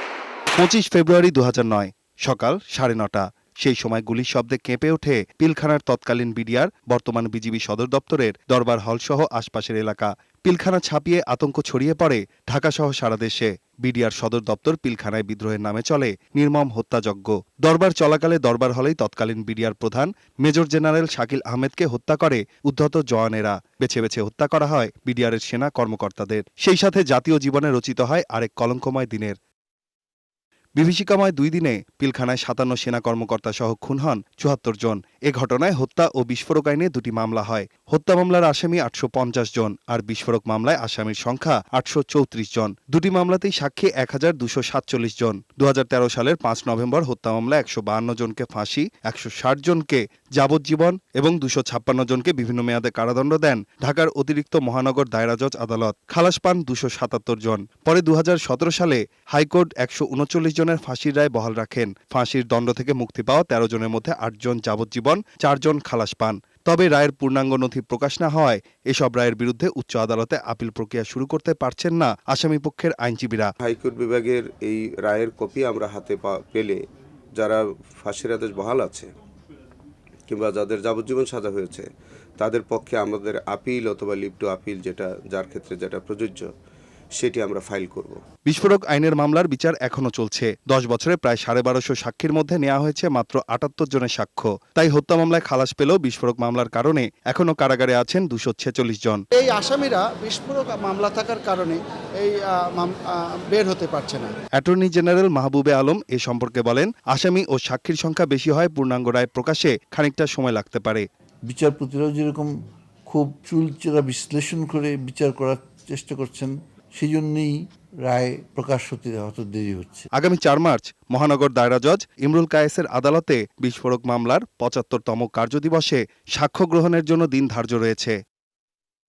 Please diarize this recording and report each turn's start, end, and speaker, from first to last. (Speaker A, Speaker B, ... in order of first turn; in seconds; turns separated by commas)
Speaker A: 0.6-29.4, Speaker A: 30.8-73.5, Speaker B: 73.6-76.8, Speaker B: 77.4-79.1, Speaker B: 80.3-81.9, Speaker B: 82.4-86.5, Speaker B: 87.2-88.2, Speaker A: 88.5-99.2, Speaker C: 99.4-104.3, Speaker A: 104.6-111.0, Speaker D: 111.5-112.4, Speaker D: 113.1-116.4, Speaker D: 117.0-117.4, Speaker D: 118.1-120.0, Speaker A: 120.2-128.2